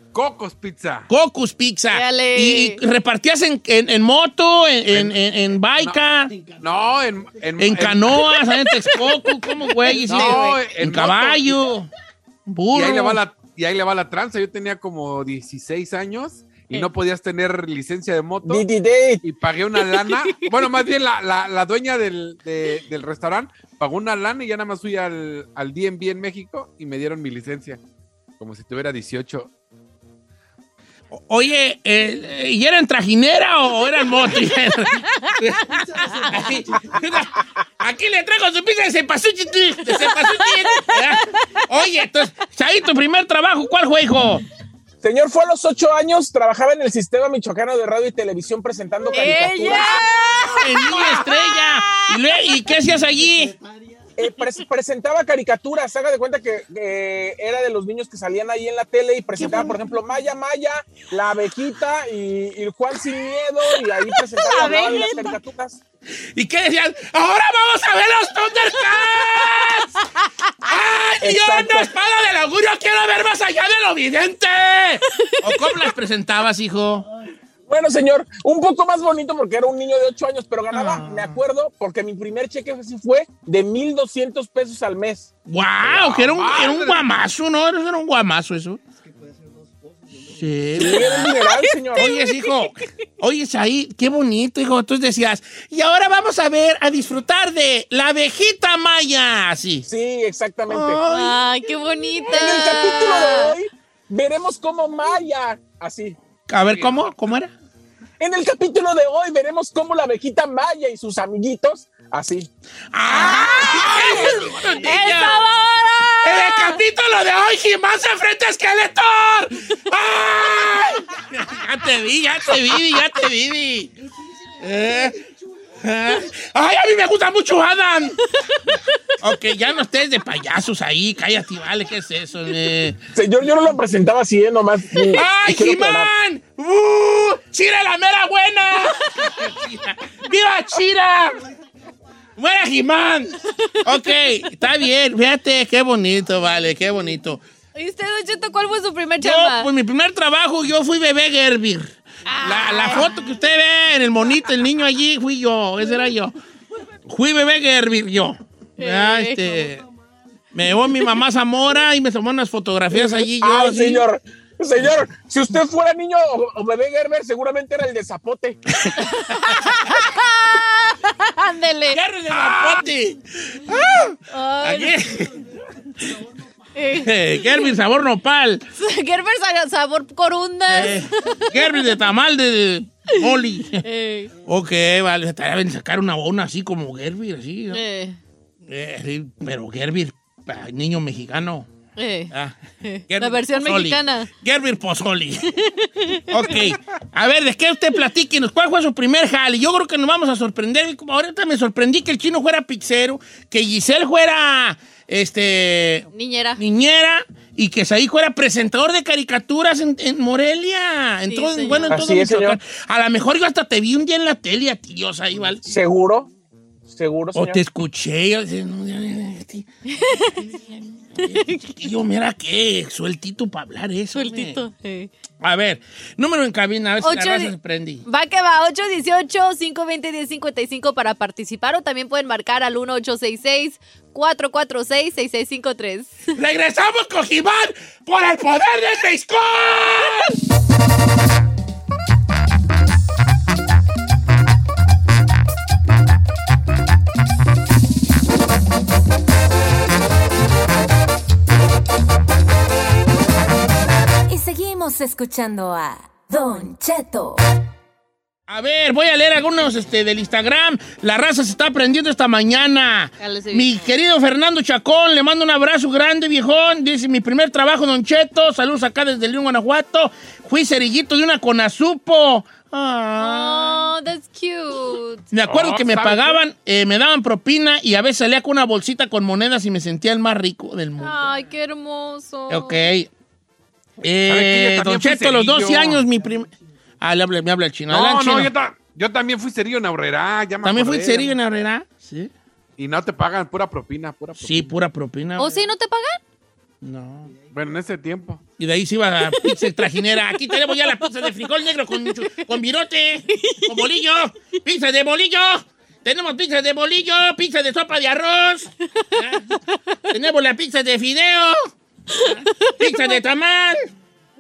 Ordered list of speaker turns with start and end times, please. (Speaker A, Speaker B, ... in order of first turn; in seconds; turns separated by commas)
Speaker A: 0.1-1.1, Speaker B: 1.1-6.3, Speaker C: 1.9-2.8, Speaker A: 4.9-5.2, Speaker A: 6.6-8.3, Speaker B: 7.6-11.9, Speaker C: 8.7-9.2, Speaker C: 9.8-10.7, Speaker A: 10.1-11.5, Speaker B: 12.5-13.2, Speaker A: 12.7-18.7, Speaker D: 18.4-19.2, Speaker A: 19.2-27.8, Speaker C: 19.8-20.6, Speaker A: 28.4-29.5, Speaker B: 31.1-44.4, Speaker C: 36.2-36.5, Speaker C: 40.0-41.0, Speaker D: 45.0-49.9, Speaker C: 49.1-52.1, Speaker B: 50.4-53.5, Speaker D: 54.2-65.8, Speaker B: 59.4-59.8, Speaker C: 63.7-65.4, Speaker B: 66.3-69.9, Speaker B: 70.6-77.1, Speaker D: 71.2-71.9, Speaker C: 75.5-75.9, Speaker D: 77.7-85.3, Speaker B: 80.7-81.4, Speaker B: 85.5-88.8, Speaker A: 85.8-87.0, Speaker B: 90.3-91.3, Speaker D: 90.8-92.1, Speaker C: 90.8-92.7, Speaker B: 92.0-99.9, Speaker D: 99.9-101.0, Speaker B: 100.7-102.8, Speaker C: 101.1-103.6, Speaker D: 102.3-106.2, Speaker B: 106.5-107.5, Speaker A: 106.7-107.0, Speaker D: 108.2-112.5, Speaker B: 112.9-115.4, Speaker C: 113.1-116.8, Speaker B: 116.2-123.9, Speaker B: 124.6-125.2, Speaker B: 125.8-128.2, Speaker B: 129.2-133.0, Speaker D: 133.2-136.1, Speaker B: 135.1-141.4, Speaker B: 142.4-147.4, Speaker C: 143.9-144.2, Speaker C: 147.8-149.7, Speaker B: 149.2-151.9, Speaker C: 152.3-153.2, Speaker B: 152.4-156.3, Speaker B: 157.1-159.8, Speaker C: 158.8-159.6, Speaker B: 160.5-164.1, Speaker D: 163.2-168.6, Speaker B: 168.8-169.7, Speaker C: 169.0-172.0, Speaker B: 171.9-175.4, Speaker C: 174.3-175.0, Speaker C: 176.8-177.7, Speaker B: 176.9-178.6, Speaker C: 178.8-182.0, Speaker B: 180.7-183.8, Speaker C: 183.1-184.4, Speaker B: 184.4-187.8, Speaker C: 187.7-188.2, Speaker B: 188.7-191.7, Speaker C: 192.0-194.3, Speaker B: 192.3-192.6, Speaker B: 193.1-195.5, Speaker C: 195.6-196.5, Speaker B: 196.2-215.6, Speaker C: 206.1-206.6, Speaker C: 211.3-212.0, Speaker D: 211.9-212.6, Speaker D: 215.6-216.3, Speaker D: 216.9-217.6, Speaker B: 217.3-219.7, Speaker C: 219.9-220.6, Speaker B: 221.2-224.6, Speaker C: 221.3-221.6, Speaker C: 224.2-225.1, Speaker B: 225.4-228.0, Speaker C: 227.0-227.6, Speaker C: 228.1-236.1, Speaker B: 236.3-240.4, Speaker E: 254.3-257.4, Speaker B: 258.5-273.9, Speaker C: 263.2-263.9, Speaker C: 273.2-275.3, Speaker B: 275.3-281.4, Speaker A: 275.5-276.4, Speaker C: 281.0-282.8, Speaker B: 282.5-283.1, Speaker B: 284.0-288.5, Speaker A: 284.3-286.0, Speaker A: 287.9-291.4, Speaker B: 290.6-292.3, Speaker A: 292.8-294.7, Speaker B: 294.4-295.7, Speaker C: 295.4-296.2, Speaker B: 296.8-297.3, Speaker A: 297.5-298.4, Speaker B: 298.6-309.5, Speaker C: 303.3-303.9, Speaker B: 310.1-313.9, Speaker C: 312.1-313.2